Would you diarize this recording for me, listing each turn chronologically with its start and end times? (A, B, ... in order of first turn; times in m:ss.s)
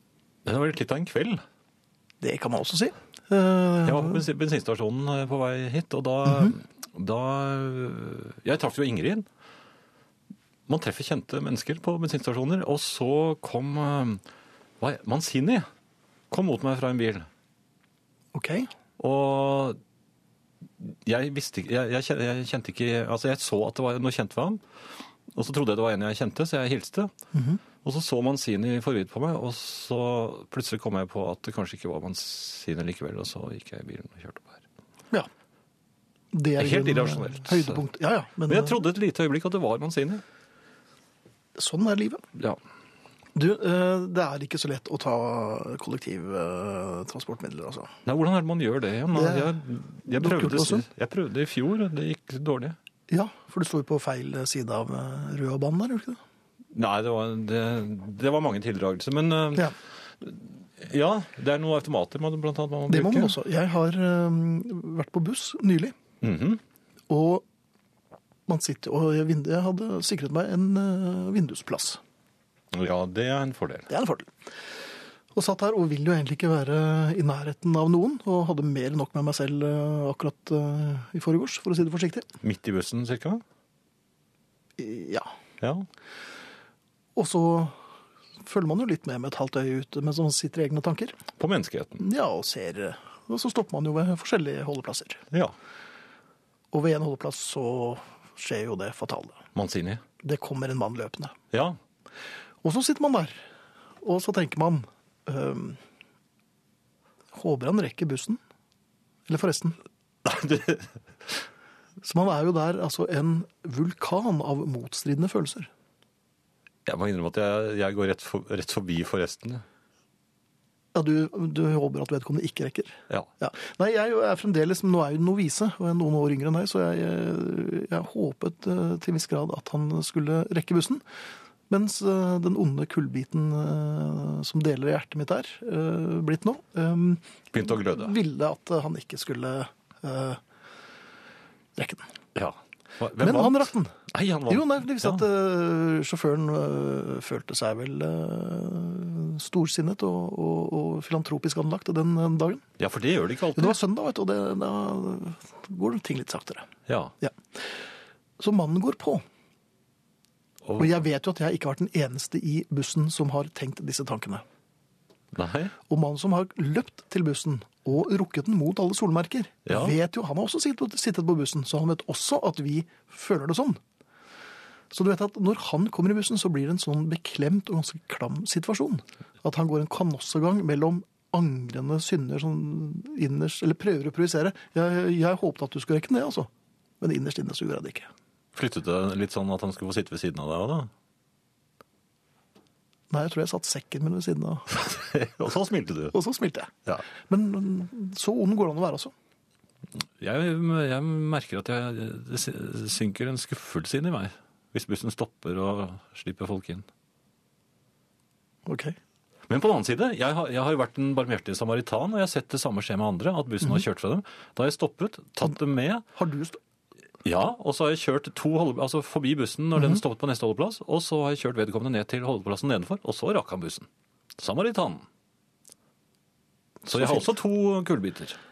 0:00.4-0:01.4 A
0:02.2-0:04.2 B
0:03.8-0:09.3 A
0:06.3-0:06.5 B
0:10.7-0:14.2 A
0:14.8-0:15.7 A
0:16.3-0:17.3 A
0:18.3-0:18.7 B
0:19.0-0:19.8 A
0:20.8-0:24.6 A
0:25.3-0:27.1 A
0:27.3-0:27.6 B
0:27.8-0:34.6 A
0:36.3-0:38.8 B
0:36.6-0:37.8 A
0:38.5-0:40.2 A
0:41.6-0:42.2 B
0:43.3-0:47.9 B
0:48.0-0:52.8 A
0:49.1-0:49.5 B
0:50.0-0:50.8 B
0:53.1-0:56.2 B
0:56.7-1:03.4 A
1:02.9-1:05.9 B
1:06.2-1:06.6 A
1:07.1-1:07.4 B
1:08.5-1:12.0 B
1:12.7-1:13.9 A
1:13.9-1:14.3 B
1:15.3-1:22.2 B
1:22.4-1:23.4 A
1:24.8-1:25.3 B
1:25.6-1:25.9 A
1:27.2-1:27.8 B
1:28.4-1:31.2 B
1:31.4-1:32.0 A
1:32.0-1:35.2 B
1:36.7-1:39.4 B
1:39.5-1:40.0 A
1:40.2-1:41.3 B
1:41.5-1:41.8 A
1:42.6-1:43.4 B
1:44.0-1:45.8 B
1:47.3-1:48.4 B
1:49.3-1:49.8 B
1:50.2-1:51.3 A
1:52.0-1:55.7 B
1:56.8-1:59.6 A
2:00.9-2:11.0 B
2:11.7-2:20.4 B
2:17.5-2:18.2 A
2:21.8-2:22.1 B
2:22.3-2:25.2 A
2:23.2-2:23.9 B
2:24.5-2:32.6 B
2:32.8-2:33.8 A
2:33.6-2:36.7 B
2:36.9-2:37.1 A
2:38.4-2:39.2 B
2:40.8-2:44.4 B
2:45.3-2:45.7 A
2:45.9-2:53.8 B
2:49.6-2:50.0 A
2:54.9-3:06.5 B
3:07.0-3:08.1 B
3:08.5-3:10.9 A
3:13.1-3:14.7 B
3:14.7-3:16.2 A
3:16.1-3:19.1 B
3:20.2-3:26.9 A
3:28.6-3:29.0 B
3:29.5-3:36.0 A
3:36.1-3:36.6 B
3:37.2-3:45.0 A
3:46.8-3:47.3 B
3:46.9-3:48.4 A